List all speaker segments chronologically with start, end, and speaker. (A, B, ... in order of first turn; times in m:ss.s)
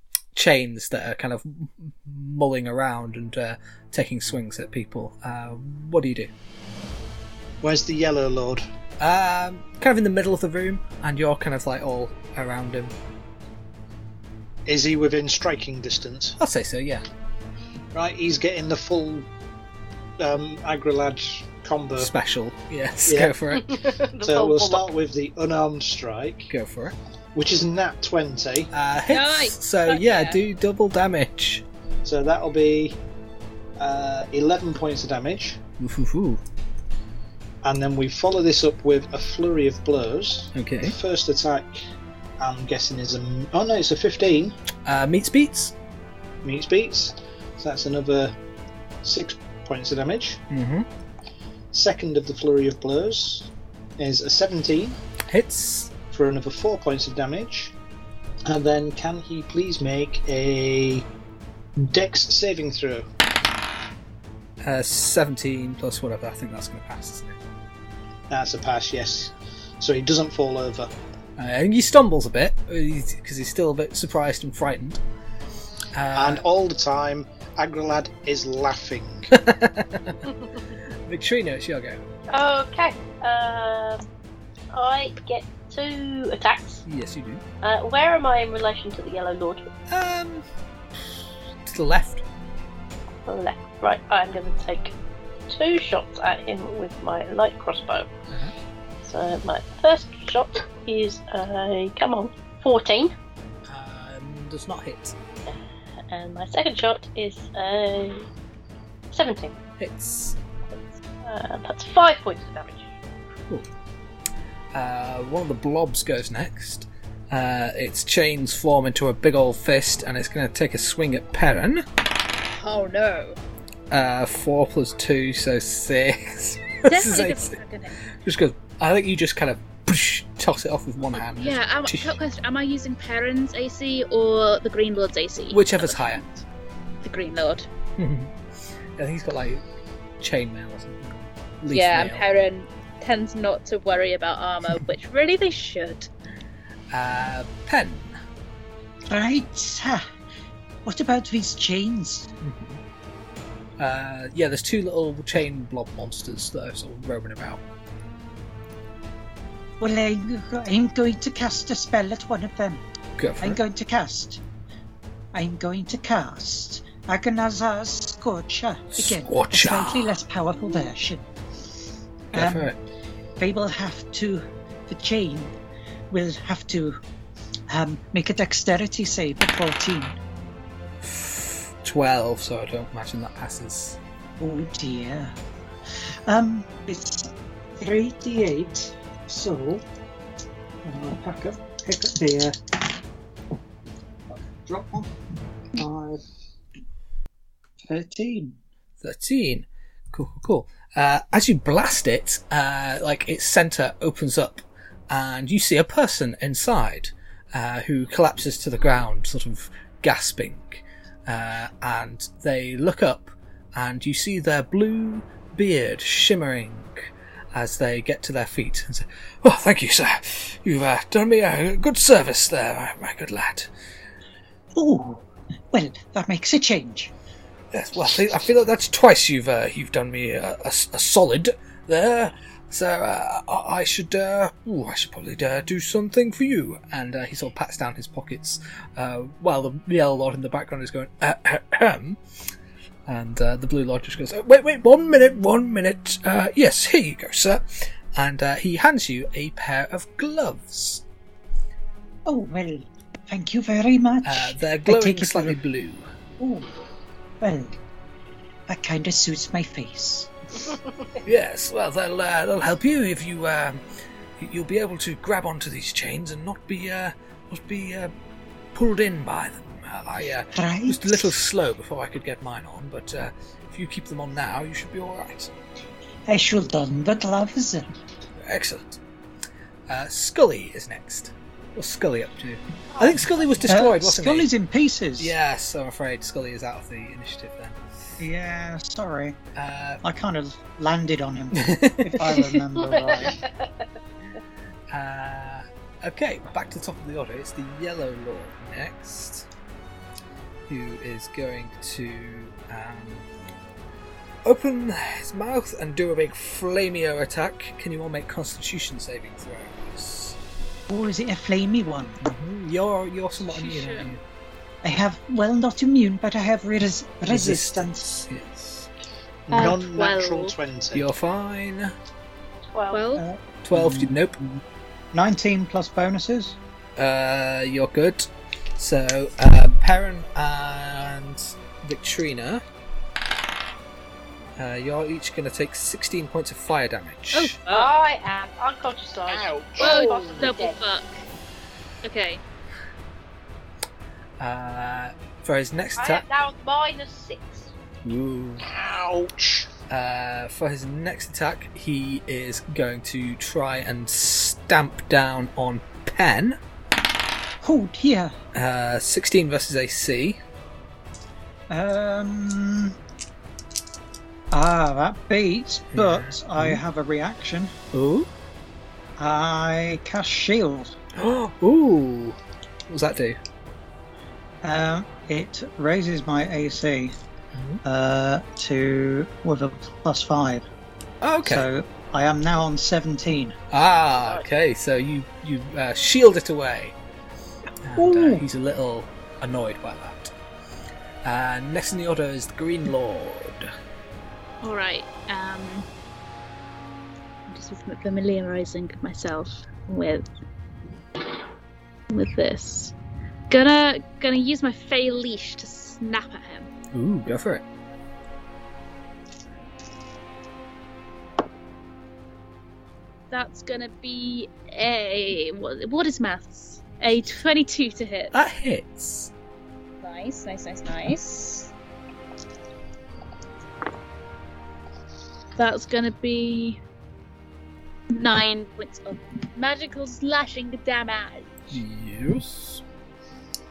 0:00.3-0:06.3 A
0:07.6-0:08.6 B
0:09.0-0:12.9 A
0:14.6-0:16.4 B
0:16.4-0:17.0 A
0:17.9-0:19.3 B
0:20.2-0:22.1 B
0:22.0-0:23.8 A
0:23.1-0:23.3 B
0:23.5-0:24.9 C
0:24.2-0:26.5 B
0:26.5-0:27.0 A
0:27.3-0:28.7 B
0:28.7-0:31.6 A
0:29.1-0:30.4 D
0:32.0-0:33.0 B
0:33.8-0:35.6 B
0:35.8-0:36.4 A
0:37.6-0:41.8 B
0:40.5-0:40.9 A
0:42.4-0:44.6 B
0:44.8-0:45.7 A
0:46.4-0:48.4 B
0:49.0-0:50.4 B
0:50.5-0:50.9 A
0:51.7-0:55.0 B
0:55.3-0:55.9 A
0:56.1-0:57.7 B
0:58.4-1:01.0 B
1:01.8-1:03.0 B
1:04.6-1:07.4 A
1:08.3-1:10.9 B
1:11.4-1:15.0 A
1:15.9-1:16.4 A
1:16.1-1:19.3 B
1:19.3-1:20.2 A
1:20.3-1:20.6 C
1:21.1-1:22.0 A
1:22.3-1:24.1 C
1:24.7-1:26.8 C
1:26.8-1:27.4 A
1:27.6-1:29.7 C
1:29.9-1:30.4 A
1:31.6-1:32.2 A
1:33.2-1:34.9 C
1:35.5-1:38.1 C
1:39.0-1:43.1 C
1:43.7-1:45.1 A
1:45.4-1:48.3 C
1:49.1-1:49.6 C
1:49.8-1:50.4 A
1:51.2-1:52.9 C
1:54.7-2:01.8 A
2:02.5-2:03.4 D
2:03.9-2:07.6 A
2:06.8-2:08.0 D
2:08.2-2:12.1 A
2:11.4-2:16.4 D
2:15.5-2:16.2 A
2:17.0-2:17.7 D
2:18.0-2:18.3 A
2:19.0-2:19.6 A
2:20.2-2:22.2 A
2:21.7-2:26.1 D
2:26.9-2:28.2 A
2:29.1-2:30.0 E
2:30.8-2:32.3 E
2:32.4-2:32.8 A
2:33.8-2:37.6 A
2:39.8-2:42.8 E
2:43.2-2:43.6 A
2:43.4-2:44.4 E
2:45.3-2:51.2 E
2:49.0-2:50.2 A
2:52.3-2:52.7 E
2:52.3-2:52.8 A
2:53.4-2:55.5 E
2:56.1-2:57.0 E
2:57.7-3:00.2 E
3:01.0-3:04.0 A
3:04.4-3:05.3 E
3:06.2-3:09.8 E
3:10.8-3:12.6 E
3:14.3-3:15.1 E
3:15.7-3:16.2 E
3:17.8-3:18.6 E
3:19.0-3:43.7 A
3:44.7-3:47.1 E
3:47.7-4:02.2 A
4:03.1-4:11.0 A
4:12.2-4:15.6 E
4:14.2-4:16.1 A
4:16.4-4:16.7 E
4:17.4-4:17.7 E
4:18.7-4:20.3 E
4:21.2-4:23.8 A
4:24.4-4:28.1 A
4:28.7-4:35.5 A
4:30.5-4:31.3 E
4:36.3-4:37.9 E
4:38.4-4:39.0 A
4:39.9-4:44.5 A
4:43.0-4:43.2 C
4:43.6-4:45.3 E
4:45.2-4:47.8 A
4:48.2-4:49.4 E
4:49.6-4:50.0 A
4:50.0-4:53.4 E
4:51.5-4:52.2 A
4:52.4-4:53.8 C
4:54.9-4:59.5 A
5:00.7-5:03.2 A
5:04.4-5:10.4 A
5:10.9-5:12.2 E
5:12.2-5:14.2 A
5:13.5-5:14.2 D
5:14.8-5:18.3 E
5:17.3-5:18.9 A
5:19.5-5:21.0 B
5:19.5-5:20.6 D
5:20.9-5:21.9 A
5:22.7-5:23.1 C
5:22.9-5:23.2 D
5:23.2-5:24.6 E
5:23.6-5:24.4 A
5:25.1-5:26.6 E
5:27.0-5:32.6 A
5:34.6-5:37.6 A
5:37.3-5:37.9 D
5:37.7-5:40.8 C
5:39.2-5:40.5 B
5:39.8-5:41.2 D
5:42.0-5:42.4 D
5:44.4-5:46.2 A
5:46.0-5:47.7 C
5:48.0-5:48.6 A
5:48.6-5:49.7 B
5:49.9-5:56.6 A
5:57.6-5:58.3 E
5:58.5-6:00.4 A
6:01.7-6:03.0 E
6:04.5-6:07.7 E
6:05.9-6:06.8 A
6:07.9-6:08.3 A
6:09.2-6:10.9 E
6:11.1-6:12.4 A
6:12.9-6:13.4 A
6:14.6-6:17.1 E
6:17.5-6:17.8 A
6:17.8-6:20.6 E
6:21.2-6:21.7 A
6:21.4-6:23.6 E
6:23.7-6:26.9 A
6:24.1-6:24.5 C
6:27.8-6:30.3 A
6:28.0-6:28.4 E
6:31.2-6:33.7 A
6:34.6-6:35.9 D
6:37.5-6:40.3 D
6:42.1-6:42.9 D
6:43.5-6:46.7 D
6:46.9-6:47.6 A
6:53.3-6:58.3 D
6:58.3-6:59.3 A
7:00.0-7:01.7 D
7:05.6-7:06.8 D
7:08.1-7:11.5 D
7:11.7-7:12.8 A